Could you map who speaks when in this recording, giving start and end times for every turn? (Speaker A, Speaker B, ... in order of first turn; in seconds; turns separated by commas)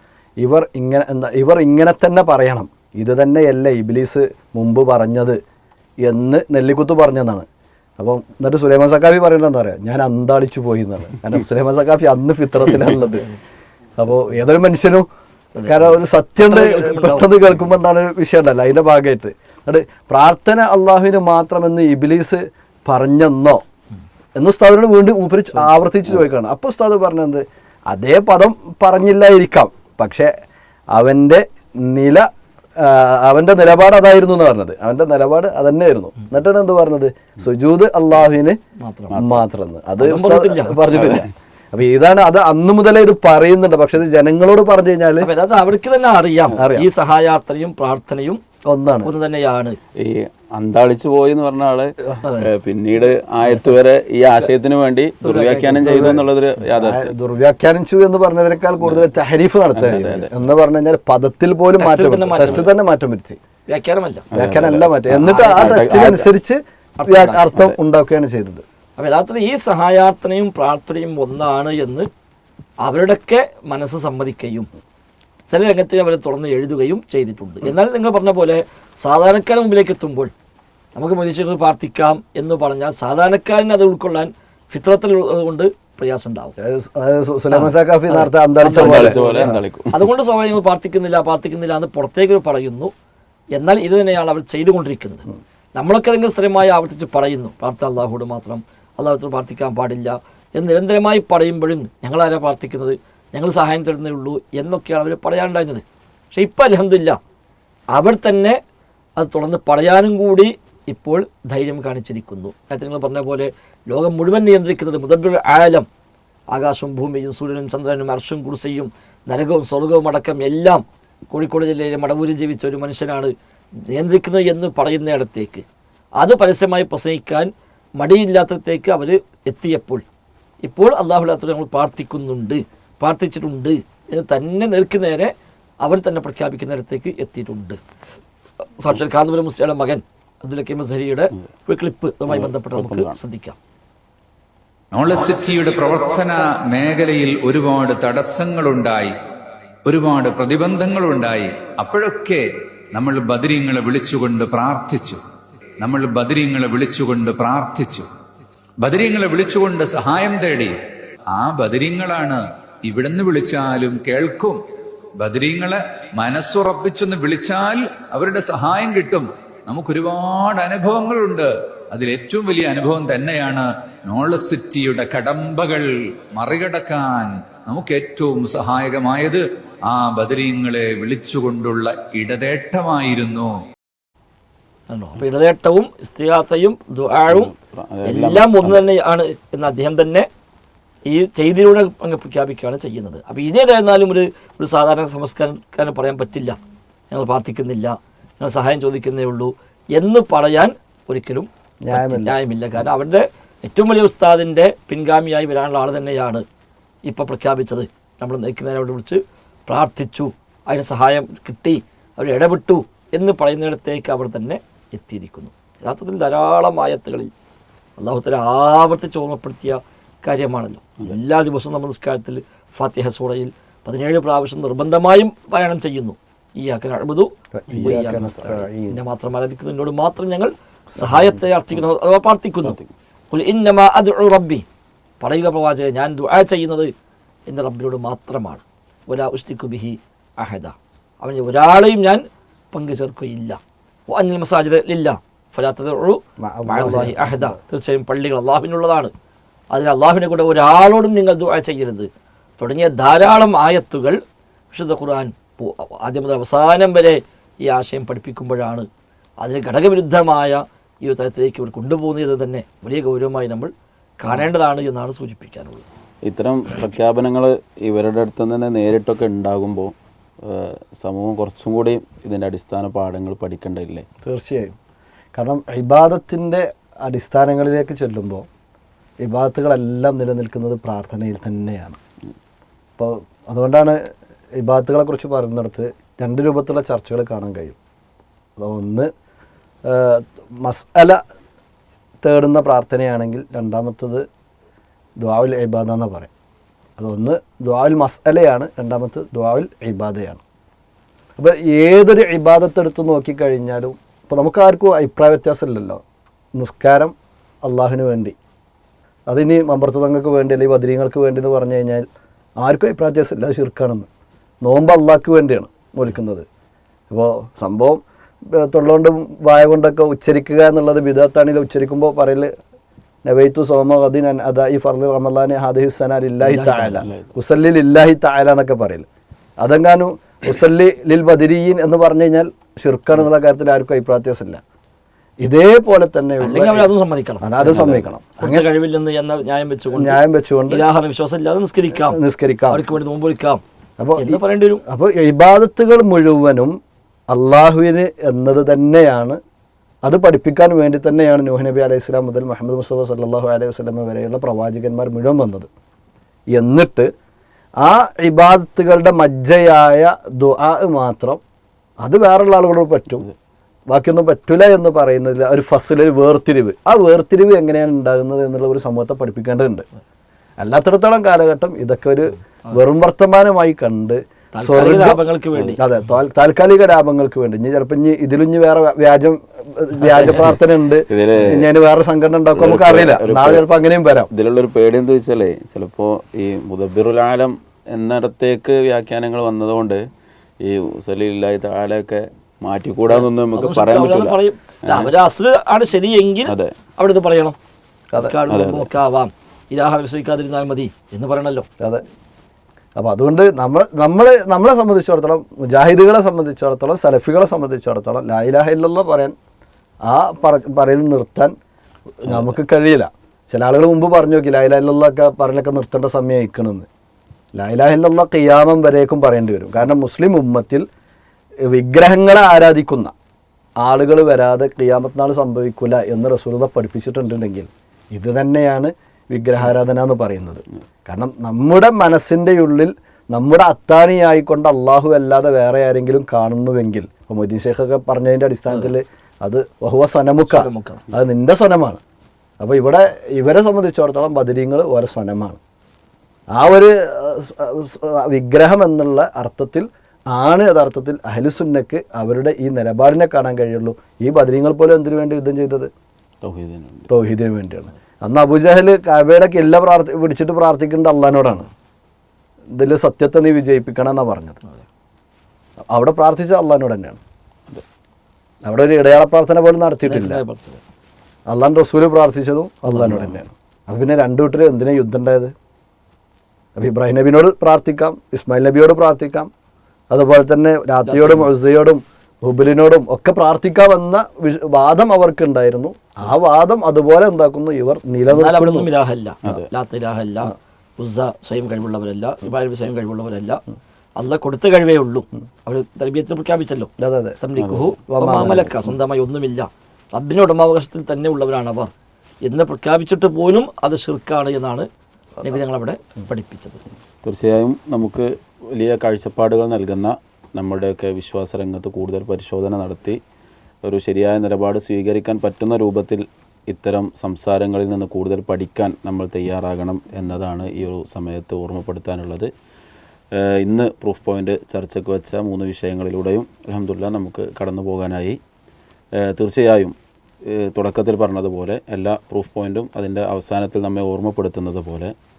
Speaker A: 0.4-5.4, Speaker A: 6.0-7.5, Speaker A: 8.0-13.3, Speaker B: 12.7-13.4, Speaker A: 14.0-15.1, Speaker B: 15.5-17.3, Speaker A: 15.7-23.6, Speaker A: 24.4-30.3, Speaker A: 30.9-32.2, Speaker A: 32.8-38.6, Speaker B: 38.8-39.4, Speaker A: 39.1-45.3, Speaker B: 40.0-40.8, Speaker C: 40.9-41.2, Speaker B: 45.2-48.4, Speaker A: 46.5-46.9, Speaker A: 48.7-49.1, Speaker B: 49.0-49.8, Speaker C: 50.0-57.1, Speaker B: 52.2-52.5, Speaker B: 53.4-53.7, Speaker B: 55.2-56.1, Speaker A: 55.8-56.2, Speaker A: 56.8-63.4, Speaker C: 58.8-59.1, Speaker C: 59.7-60.5, Speaker B: 61.8-62.7, Speaker B: 63.7-64.2, Speaker C: 64.3-66.3, Speaker A: 64.3-68.6, Speaker B: 65.2-66.0, Speaker B: 67.0-67.5, Speaker B: 69.0-72.1, Speaker B: 72.8-74.7, Speaker B: 75.5-80.3, Speaker B: 80.9-86.5, Speaker A: 86.6-89.6, Speaker B: 87.5-92.9, Speaker C: 88.7-90.0, Speaker B: 93.5-107.2, Speaker B: 107.9-108.6, Speaker B: 109.2-115.8, Speaker B: 116.5-123.3, Speaker B: 123.9-125.6, Speaker B: 126.2-130.0, Speaker B: 130.6-137.8, Speaker B: 138.8-143.6, Speaker C: 142.3-143.2, Speaker D: 144.9-149.1, Speaker D: 149.8-155.2, Speaker D: 155.8-158.1, Speaker D: 158.8-160.8, Speaker D: 161.3-164.6, Speaker D: 165.2-183.6, Speaker B: 184.9-187.5, Speaker C: 187.3-188.8, Speaker B: 188.0-190.3, Speaker B: 191.1-196.6, Speaker B: 197.1-206.4, Speaker A: 201.8-202.4, Speaker B: 207.1-217.3, Speaker B: 218.0-232.8, Speaker A: 227.6-229.0, Speaker C: 230.9-231.4, Speaker B: 233.3-234.6, Speaker B: 235.2-236.9, Speaker B: 237.5-243.6, Speaker B: 244.1-249.1, Speaker A: 246.4-247.6, Speaker B: 249.7-252.1, Speaker B: 252.6-254.2, Speaker B: 254.7-258.9, Speaker B: 259.4-265.9, Speaker C: 266.2-269.9, Speaker C: 270.4-274.1, Speaker A: 274.2-274.7, Speaker A: 275.3-278.4, Speaker A: 279.2-282.0, Speaker A: 283.0-284.0, Speaker A: 284.6-287.8, Speaker A: 288.6-289.1, Speaker A: 289.9-291.2, Speaker A: 292.2-294.2, Speaker A: 295.2-296.3, Speaker A: 297.0-300.4, Speaker A: 301.4-306.0, Speaker A: 306.5-307.1, Speaker A: 307.6-308.3, Speaker A: 309.3-312.0, Speaker A: 312.6-314.1, Speaker A: 314.6-316.4, Speaker A: 317.1-318.0, Speaker A: 318.5-322.5, Speaker A: 323.2-329.0, Speaker B: 326.4-327.1, Speaker C: 327.0-327.3, Speaker A: 329.6-334.6, Speaker A: 335.4-336.9, Speaker B: 336.4-342.2, Speaker A: 337.4-338.7, Speaker A: 339.9-340.8, Speaker A: 341.9-342.8, Speaker B: 342.7-343.6, Speaker A: 344.0-346.7, Speaker B: 344.2-344.8, Speaker A: 347.3-349.4, Speaker A: 350.0-355.7, Speaker A: 356.5-357.1, Speaker A: 357.8-361.4, Speaker A: 362.0-363.2, Speaker A: 363.9-369.8, Speaker A: 370.6-375.2, Speaker B: 374.5-375.8, Speaker A: 375.8-384.3, Speaker B: 380.0-380.6, Speaker C: 381.1-381.7, Speaker C: 382.6-383.6, Speaker C: 384.3-390.0, Speaker C: 390.6-395.1, Speaker B: 393.1-397.6, Speaker C: 396.4-396.7, Speaker A: 398.1-398.4, Speaker B: 398.1-401.6, Speaker C: 398.5-398.9, Speaker A: 403.0-409.3, Speaker A: 410.1-411.5, Speaker A: 412.2-416.9, Speaker C: 412.3-412.5, Speaker A: 417.5-420.9, Speaker A: 421.7-423.1, Speaker A: 423.8-442.0, Speaker B: 438.7-438.9, Speaker B: 440.4-441.1, Speaker A: 442.6-445.6, Speaker A: 446.5-455.9, Speaker C: 456.4-457.1, Speaker A: 457.1-461.7, Speaker A: 462.7-464.6, Speaker A: 465.9-467.2, Speaker A: 468.6-470.4, Speaker B: 470.1-470.8, Speaker A: 471.5-475.5, Speaker B: 472.9-473.4, Speaker A: 476.8-479.5, Speaker A: 480.1-488.9, Speaker B: 481.1-481.5, Speaker B: 488.3-493.6, Speaker B: 494.2-496.9, Speaker A: 497.0-497.4, Speaker B: 497.4-501.9, Speaker C: 497.6-497.9, Speaker A: 498.1-498.9, Speaker B: 502.4-504.9, Speaker B: 505.4-506.8, Speaker C: 507.2-513.2, Speaker C: 513.8-522.5, Speaker C: 523.6-528.4, Speaker C: 529.3-529.9, Speaker C: 530.7-535.1